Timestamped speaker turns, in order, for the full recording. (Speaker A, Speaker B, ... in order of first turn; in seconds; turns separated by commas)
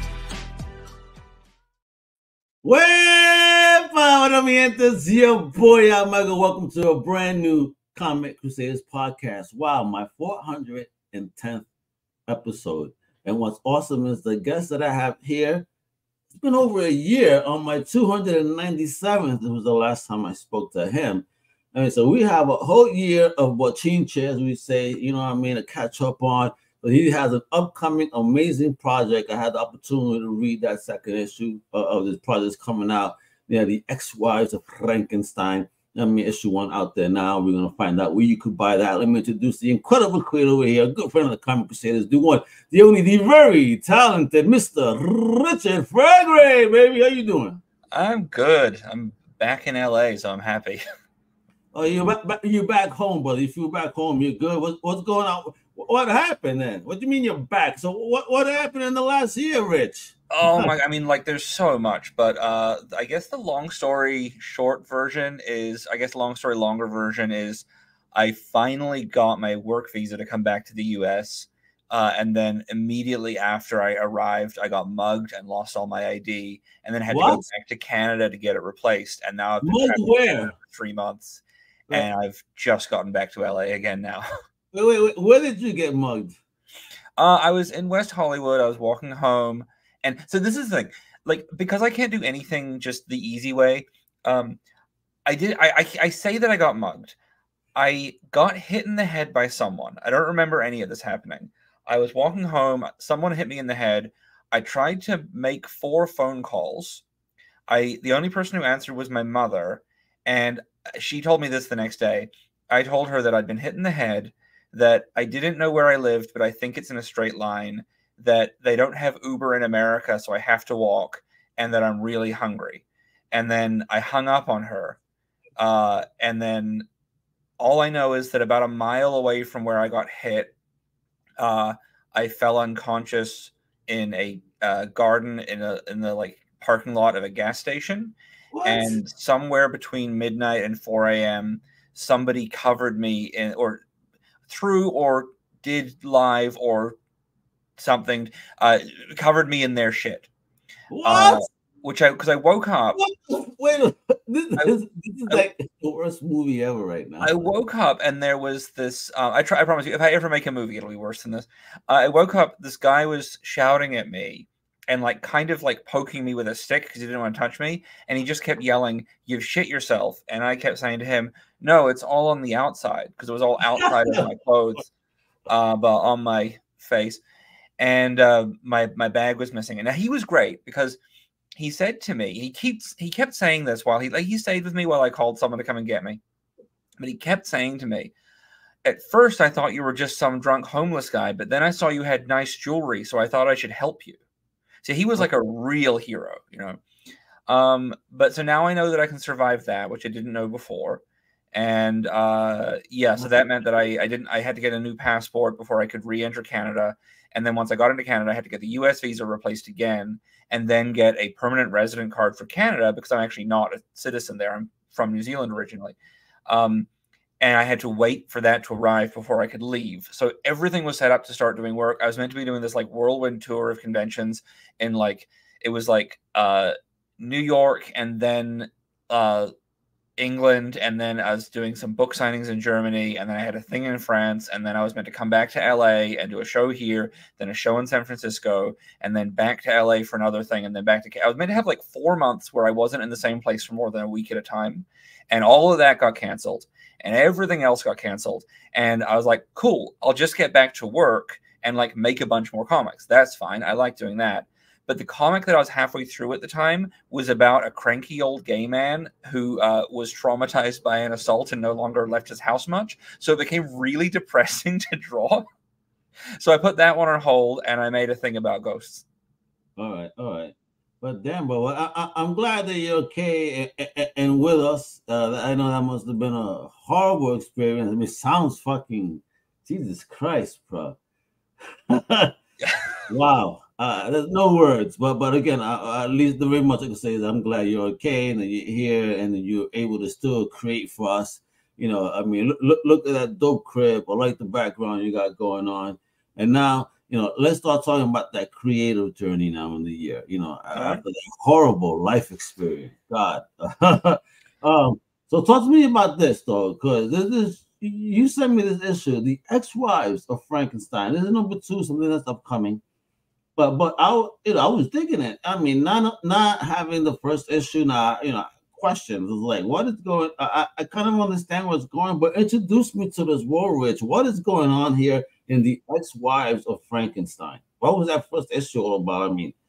Speaker A: 2.6-11.7, Speaker A: 12.3-15.7, Speaker A: 16.3-47.6, Speaker B: 47.9-50.8, Speaker A: 51.7-60.7, Speaker B: 60.3-84.3, Speaker A: 77.1-77.5, Speaker A: 79.6-80.5, Speaker A: 84.7-86.4, Speaker B: 87.2-94.6, Speaker B: 95.3-97.2, Speaker B: 97.8-107.0, Speaker B: 107.7-125.0, Speaker B: 125.6-126.9, Speaker B: 127.6-130.5, Speaker B: 131.4-143.8, Speaker A: 138.5-139.0, Speaker B: 144.5-147.0, Speaker B: 147.8-150.3, Speaker A: 150.9-151.5, Speaker B: 151.1-153.0, Speaker A: 152.9-157.4, Speaker B: 157.2-174.9, Speaker A: 173.8-174.2, Speaker B: 175.5-177.2, Speaker B: 177.8-181.0, Speaker B: 181.6-186.2, Speaker B: 187.0-188.1, Speaker B: 188.8-194.2, Speaker B: 194.8-196.8, Speaker B: 197.5-201.0, Speaker B: 201.5-216.0, Speaker B: 216.5-216.9, Speaker B: 217.4-229.5, Speaker B: 230.2-265.4, Speaker B: 266.4-269.1, Speaker A: 269.8-281.0, Speaker A: 281.9-282.3, Speaker A: 283.1-312.8, Speaker B: 300.7-301.0, Speaker A: 313.6-329.6